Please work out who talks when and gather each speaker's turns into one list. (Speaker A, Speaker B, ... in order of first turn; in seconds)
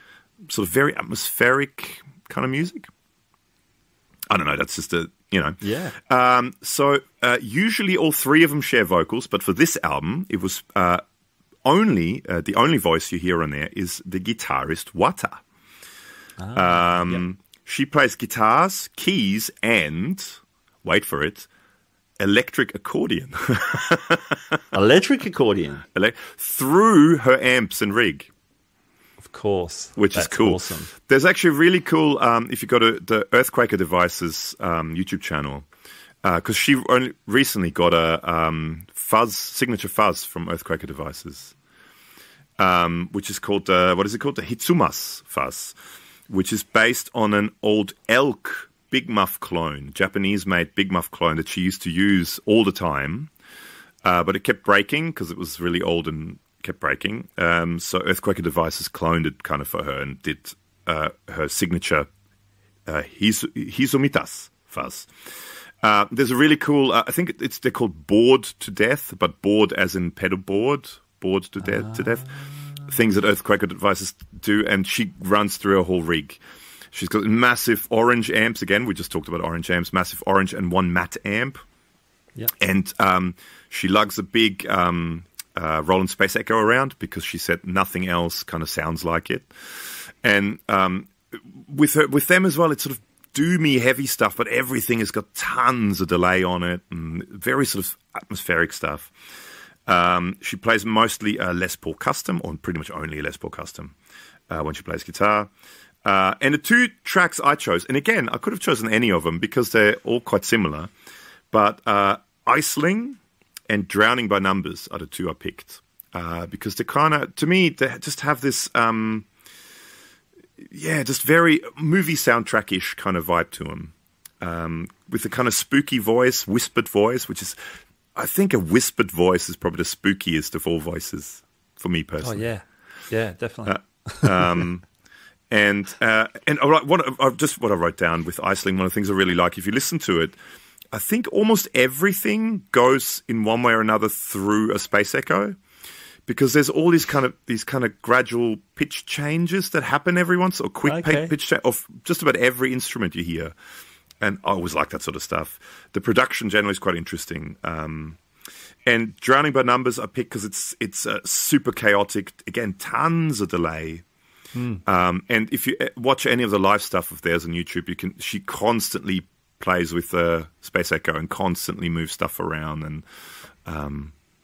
Speaker A: 0.5-2.9, 4.3-11.0, 11.6-15.4, 16.5-21.5, 22.2-24.6, 25.9-28.3, 29.9-35.6, 36.2-41.5, 42.6-45.7, 46.3-53.3, 54.0-62.1, 62.9-65.1, 65.8-72.3, 72.8-76.4, 76.9-81.6, 82.6-89.5, 90.2-99.1, 99.8-103.9, 104.5-105.5, 106.0-110.9, 111.5-119.2, 120.7-127.6, 128.1-132.5, 133.6-134.8, 135.5-140.3, 140.9-145.6, 146.3-153.5, 154.2-158.2, 158.8-164.0, 164.8-173.1, 173.6-174.1
Speaker B: 5.6-5.9, 16.4-17.2, 24.7-25.8, 29.2-30.9, 71.7-72.0, 132.2-134.3, 150.8-151.3, 164.5-164.8